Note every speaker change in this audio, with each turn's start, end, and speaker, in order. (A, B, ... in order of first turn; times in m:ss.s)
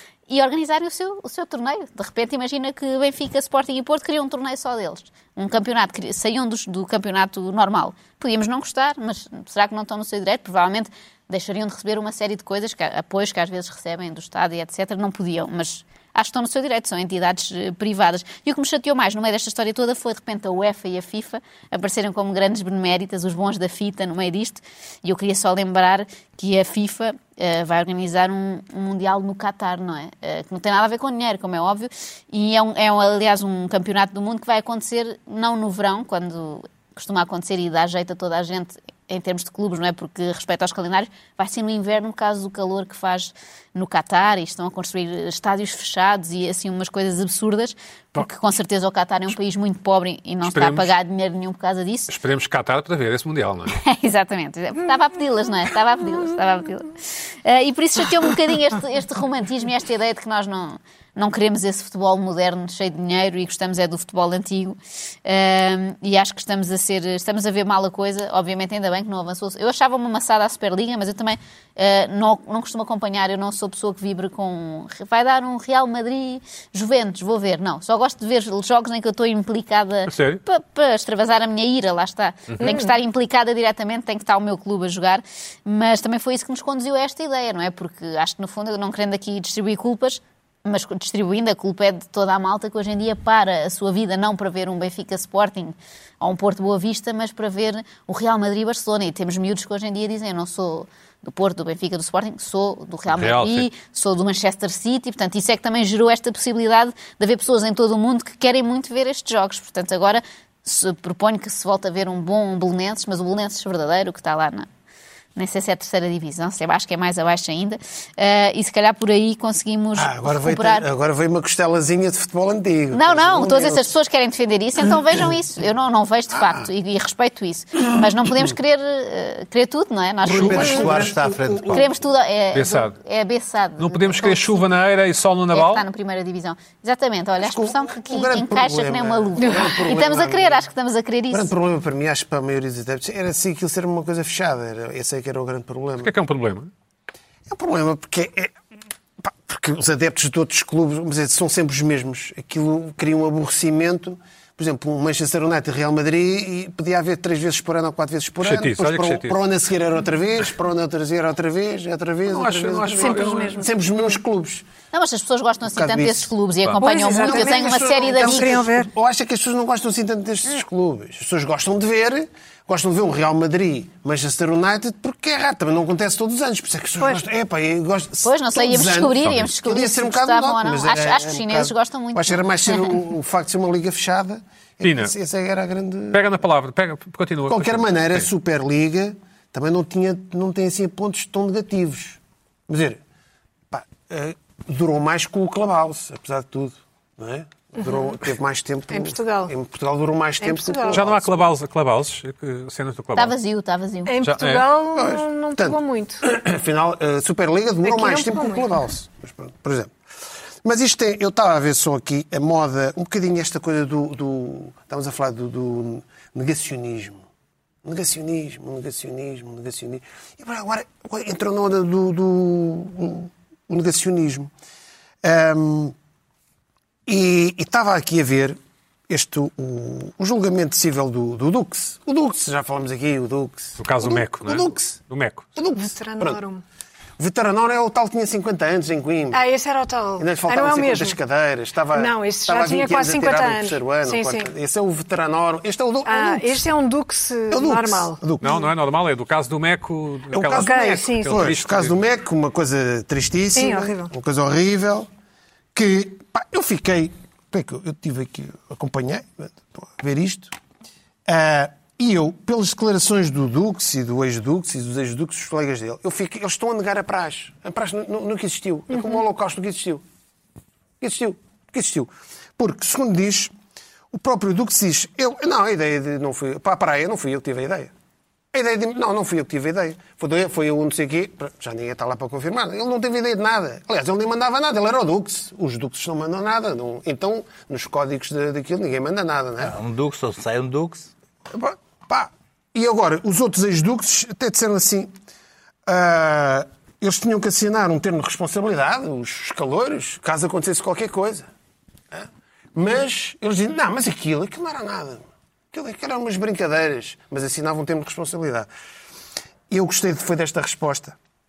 0:00.3-0:52.1 A
0:50.4-0:50.9 B
0:52.1-0:53.8 B
0:53.7-0:56.9 A
0:57.4-1:54.7 A
1:20.1-1:20.4 B
1:43.1-1:43.7 B
1:55.4-2:00.9 A
2:00.0-2:03.9 C
2:02.9-2:11.1 A
2:06.4-2:06.6 C
2:10.2-2:11.9 C
2:10.3-2:11.9 D
2:11.7-2:14.7 A
2:12.5-2:13.0 B
2:13.8-2:15.8 B
2:15.5-2:21.5 A
2:17.4-2:20.6 C
2:19.4-2:19.7 E
2:21.3-2:26.1 C
2:26.0-2:26.7 B
2:27.5-2:28.6 C
2:29.2-2:44.7 C
2:38.4-2:39.4 B
2:42.3-2:43.6 B
2:43.0-2:43.7 E
2:44.9-2:48.6 A
2:45.8-2:46.3 C
2:46.8-2:48.9 E
2:47.1-3:06.2 C
2:57.0-2:57.3 E
2:58.2-3:02.5 A
3:04.8-3:05.1 B
3:06.1-3:08.3 B
3:07.5-3:13.0 C
3:13.7-3:21.5 C
3:18.9-3:19.5 E
3:20.4-3:21.1 E
3:20.9-3:23.4 B
3:23.2-3:24.2 A
3:24.1-3:26.2 E
3:24.2-3:24.7 B
3:24.9-3:29.9 C
3:27.8-3:28.8 E
3:30.6-3:37.2 C
3:37.8-3:44.5 C
3:45.2-3:46.0 C
3:47.1-3:48.6 C
3:49.1-3:55.0 C
3:53.8-3:55.5 B
3:55.6-3:56.4 C
3:55.7-3:56.6 E
3:57.2-3:59.4 C
3:59.3-4:01.2 E
4:00.2-4:06.6 C
4:01.9-4:04.5 E
4:06.0-4:08.2 E
4:07.5-4:08.7 C
4:08.4-4:12.0 B
4:10.3-4:15.1 C
4:10.5-4:11.5 E
4:13.5-4:14.1 E
4:15.8-4:20.5 C
4:21.3-4:30.0 C
4:28.9-4:29.2 E
4:31.0-4:33.5 C
4:34.1-4:37.9 C
4:38.5-4:49.8 C
4:49.6-4:51.1 D
4:51.5-4:55.1 C
4:55.9-5:01.5 C
5:02.1-5:08.7 C
5:09.7-5:11.2 C